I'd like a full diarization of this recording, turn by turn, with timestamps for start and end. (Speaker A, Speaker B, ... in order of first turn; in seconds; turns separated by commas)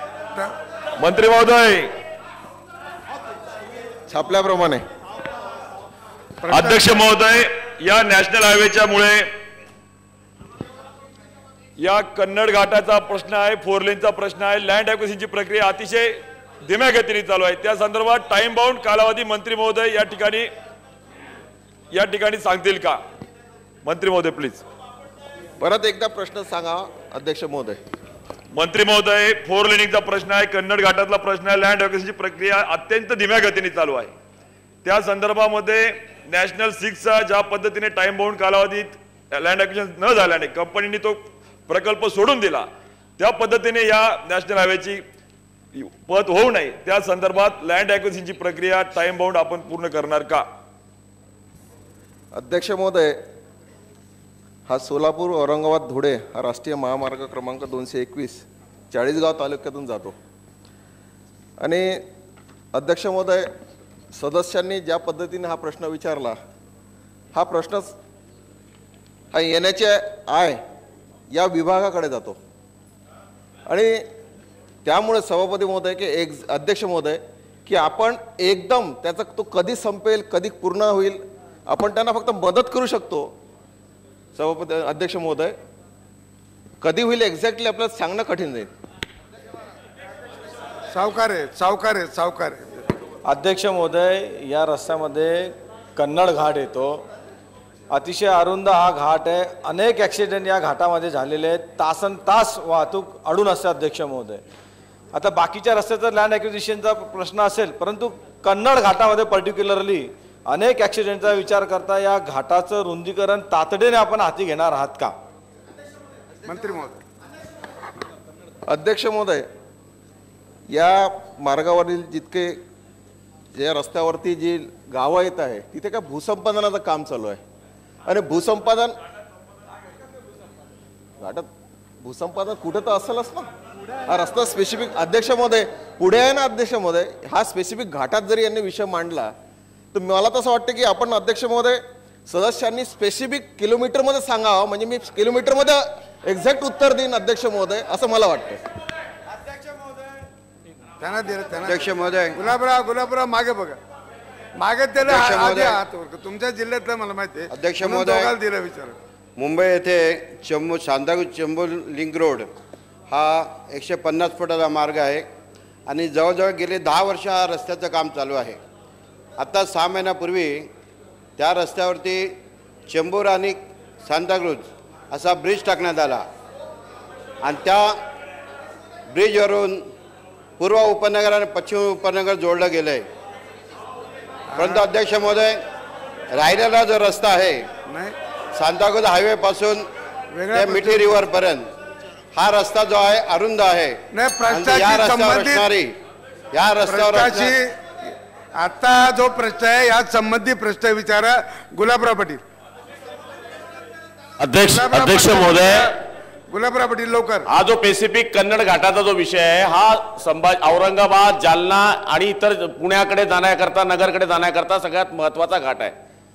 Speaker A: 1.0-1.9, Speaker B: 4.1-4.8, Speaker C: 6.4-7.0, Speaker A: 6.5-9.3, Speaker A: 11.8-20.5, Speaker A: 21.9-23.0, Speaker A: 23.8-24.6, Speaker B: 25.6-27.8, Speaker A: 28.5-34.1, Speaker A: 34.8-42.7, Speaker A: 43.2-45.0, Speaker A: 45.7-50.4, Speaker B: 52.3-53.1, Speaker B: 54.7-60.1, Speaker B: 61.6-62.0, Speaker B: 62.7-63.5, Speaker B: 64.1-66.4, Speaker B: 67.3-67.9, Speaker B: 69.3-70.6, Speaker B: 71.3-72.4, Speaker B: 73.7-74.1, Speaker B: 74.8-83.3, Speaker B: 84.3-85.5, Speaker B: 86.8-88.7, Speaker C: 90.9-92.8, Speaker D: 93.3-97.0, Speaker D: 97.9-104.4, Speaker D: 105.1-115.1, Speaker C: 116.5-117.0, Speaker B: 118.7-119.5, Speaker B: 120.7-122.6, Speaker B: 123.5-127.4, Speaker B: 128.1-128.9, Speaker B: 131.2-131.4, Speaker B: 132.0-133.5, Speaker B: 134.1-139.3, Speaker B: 139.9-148.6, Speaker C: 151.0-153.8, Speaker E: 151.6-152.4, Speaker C: 154.6-159.0, Speaker E: 154.9-155.8, Speaker E: 157.5-158.3, Speaker E: 159.4-162.5, Speaker E: 163.1-165.2, Speaker E: 165.9-168.6, Speaker E: 169.4-170.7, Speaker E: 171.4-172.3, Speaker E: 172.9-176.2, Speaker E: 177.4-177.9, Speaker E: 179.1-179.8, Speaker E: 180.6-183.1, Speaker C: 184.5-184.8, Speaker E: 184.6-185.6, Speaker E: 186.3-187.8, Speaker C: 187.8-188.1, Speaker E: 188.5-189.8, Speaker C: 190.3-191.2, Speaker E: 190.5-191.7, Speaker E: 192.3-195.9, Speaker C: 194.1-195.7, Speaker E: 196.5-197.5, Speaker C: 196.8-197.7, Speaker C: 198.6-202.4, Speaker F: 204.4-205.9, Speaker C: 204.7-205.6, Speaker C: 206.5-207.5, Speaker F: 207.5-215.9